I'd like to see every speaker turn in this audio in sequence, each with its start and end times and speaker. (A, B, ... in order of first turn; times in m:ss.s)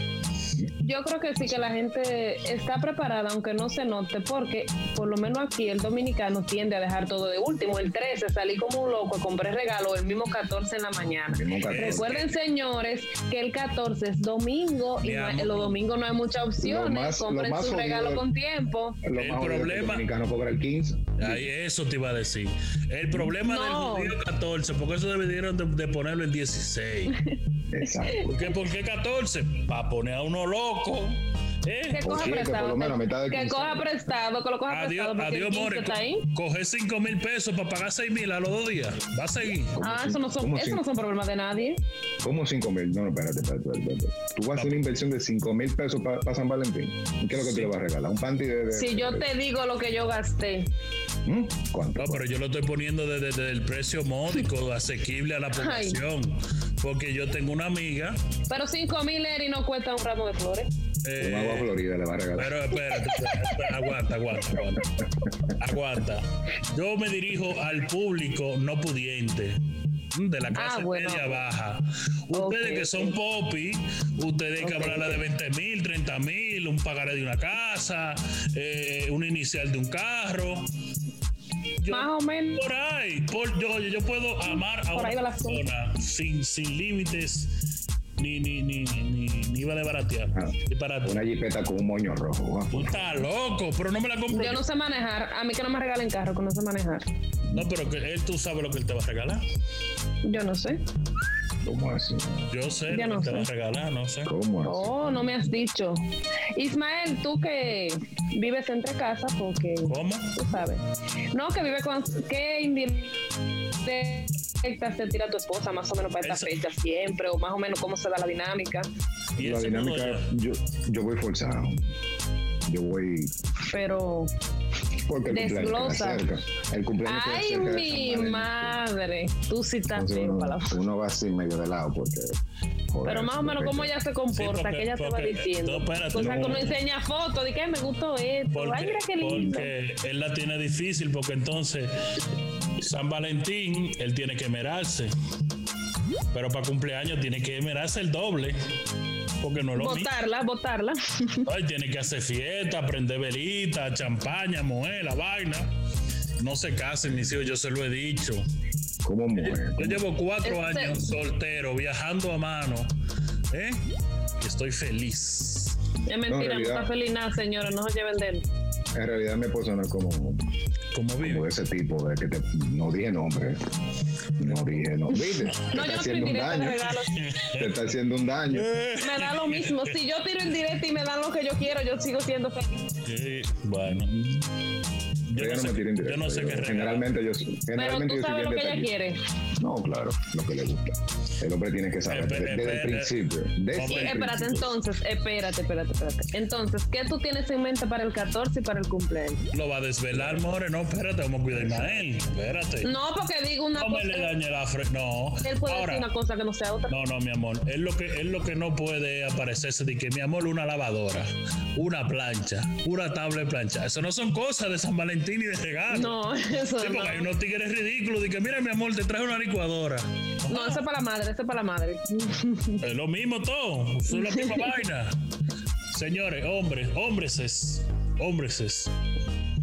0:00.8-0:19.0 A
0:11.3-0:12.1 B
0:11.7-0:12.3 C
0:15.0-0:15.8 C
0:16.6-0:18.2 B
0:19.0-0:21.5 B
0:19.1-0:20.1 C
0:21.2-0:27.1 C
0:23.4-0:24.1 A
0:27.7-0:28.4 B
0:28.1-0:28.4 A
0:28.2-0:32.1 C
0:31.9-0:36.2 A
0:32.0-0:34.0 B
0:34.7-0:39.8 C
0:39.6-0:40.8 B
0:39.8-0:41.8 A
0:42.2-0:49.3 B
0:44.6-0:44.8 C
0:47.3-0:47.7 C
0:48.7-0:50.7 A
0:51.2-0:52.2 B
0:52.0-0:58.1 C
0:55.5-0:56.0 A
0:58.5-1:00.7 A
1:01.0-1:01.8 C
1:01.2-1:02.6 B
1:02.4-1:04.8 C
1:03.0-1:03.6 A
1:05.6-1:09.6 C
1:10.1-1:20.7 C
1:10.5-1:11.4 A
1:12.3-1:13.2 A
1:14.7-1:15.2 A
1:21.8-1:27.6 C
1:21.9-1:22.6 A
1:24.4-1:25.6 A
1:28.2-1:31.2 C
1:30.3-1:33.2 B
1:32.7-1:34.6 C
1:34.3-1:37.0 A
1:37.5-1:39.4 C
1:40.2-1:40.8 A
1:41.6-1:42.5 B
1:42.5-1:44.3 C
1:42.9-1:43.5 A
1:44.2-1:45.4 B
1:44.6-1:46.0 A
1:46.6-1:53.2 A
1:49.9-1:50.3 C
1:53.8-1:58.9 A
1:56.2-1:56.5 C
1:59.4-2:00.3 C
1:59.4-2:01.8 B
2:02.7-2:03.4 B
2:03.7-2:04.3 A
2:05.0-2:08.8 B
2:05.3-2:06.2 A
2:07.0-2:10.7 A
2:09.9-2:12.4 B
2:12.9-2:13.9 B
2:13.0-2:19.7 A
2:14.3-2:16.7 C
2:18.5-2:21.9 C
2:22.8-2:25.1 C
2:26.3-2:28.6 C
2:29.4-2:30.1 C
2:29.8-2:31.5 A
2:31.4-2:35.7 C
2:36.4-2:38.4 C
2:39.0-2:40.0 B
2:39.4-2:42.9 C
2:40.4-2:41.0 A
2:43.5-2:43.8 C
2:44.4-2:45.8 C
2:46.1-2:48.4 A
2:46.3-2:46.9 B
2:48.9-2:50.4 B
2:50.9-2:51.4 C
2:51.2-2:53.6 B
2:54.4-2:56.8 B
2:55.4-2:57.1 A
2:56.9-2:57.7 C
2:57.5-2:58.7 B
2:58.5-2:59.9 C
2:59.0-3:02.8 A
3:03.0-3:04.3 C
3:05.3-3:07.1 C
3:05.4-3:08.9 B
3:07.8-3:09.2 A
3:09.6-3:14.7 B
3:12.0-3:13.2 C
3:13.7-3:14.2 C
3:13.8-3:19.4 A
3:19.5-3:22.9 C
3:20.1-3:20.5 B
3:21.5-3:22.1 B
3:22.8-3:24.3 A
3:23.7-3:26.1 C
3:25.4-3:26.9 A
3:26.9-3:40.8 C
3:35.9-3:37.3 A
3:40.5-3:42.8 A
3:42.8-3:45.1 C
3:44.1-3:44.7 A
3:45.9-3:48.9 C